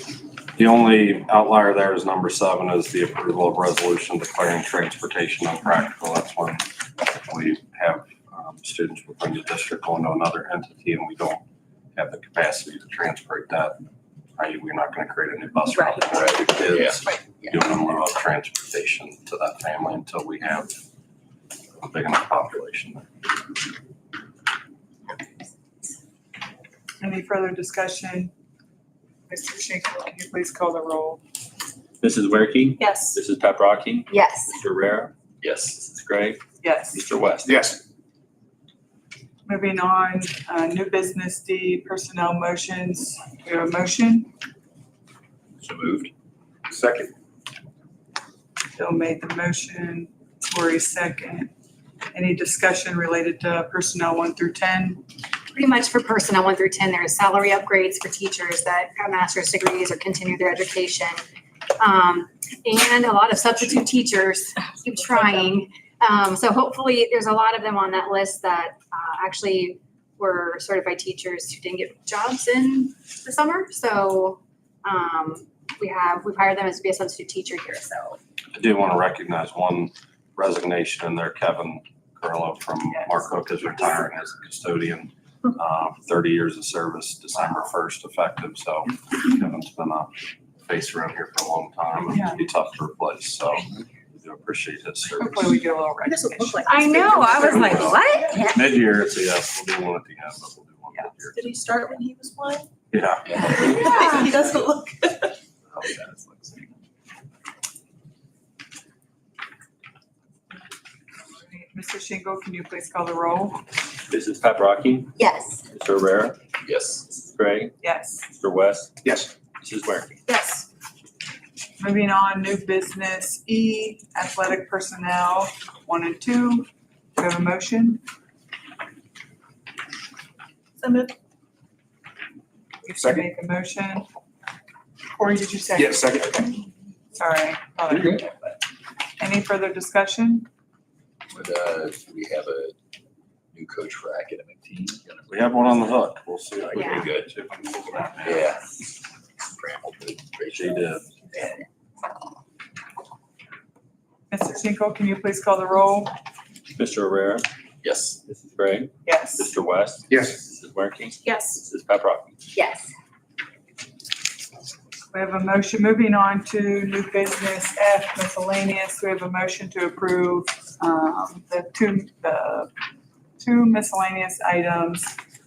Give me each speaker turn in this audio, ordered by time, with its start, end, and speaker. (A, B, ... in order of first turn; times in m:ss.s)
0:00.6-0:11.4 A
0:11.9-0:13.8 A
0:14.4-0:20.7 A
0:15.8-0:16.0 B
0:16.1-0:17.0 C
0:21.8-0:23.1 A
0:27.0-0:28.3 D
0:29.3-0:31.2 D
0:32.0-0:35.1 E
0:32.8-0:33.2 F
0:34.1-0:34.5 B
0:35.7-0:36.4 E
0:36.6-0:37.0 D
0:36.9-0:37.6 E
0:37.4-0:37.8 G
0:39.4-0:44.3 D
0:45.8-0:46.1 C
0:46.7-0:47.1 G
0:48.8-0:51.5 D
0:52.1-0:55.0 D
0:55.5-1:01.2 B
1:01.8-1:18.2 B
1:18.5-1:35.6 A
1:32.1-1:32.4 D
1:35.2-1:37.4 D
1:36.0-1:38.4 F
1:36.6-1:38.6 B
1:37.3-1:41.6 A
1:41.3-1:42.7 F
1:42.9-1:43.8 A
1:43.2-1:43.6 C
1:43.4-1:45.4 F
1:43.4-1:44.2 B
1:45.7-1:46.6 A
1:51.4-1:53.6 D
1:54.0-1:55.2 E
1:55.2-1:55.6 B
1:55.7-1:56.4 E
1:56.6-1:57.1 C
1:57.2-1:57.7 E
1:57.8-1:58.3 D
1:58.3-1:58.9 E
1:59.0-1:59.3 G
1:59.6-2:00.2 E
2:00.3-2:00.6 F
2:01.8-2:08.0 D
2:10.8-2:11.1 F
2:12.8-2:14.0 D
2:13.0-2:13.3 G
2:15.2-2:16.6 D
2:15.7-2:16.4 G
2:17.1-2:18.6 D
2:17.9-2:18.3 G
2:19.2-2:20.5 D
2:21.3-2:22.8 C
2:23.5-2:25.9 C
2:25.3-2:28.5 A
2:26.6-2:27.3 C
2:28.2-2:28.7 C
2:29.4-2:31.0 C
2:30.5-2:31.1 A
2:34.3-2:36.1 D
2:36.7-2:37.4 E
2:37.8-2:38.2 C
2:38.2-2:42.3 E
2:39.0-2:39.5 D
2:40.1-2:40.4 G
2:41.2-2:41.6 F
2:42.5-2:42.9 B
2:45.1-2:52.7 D
2:53.4-2:55.1 D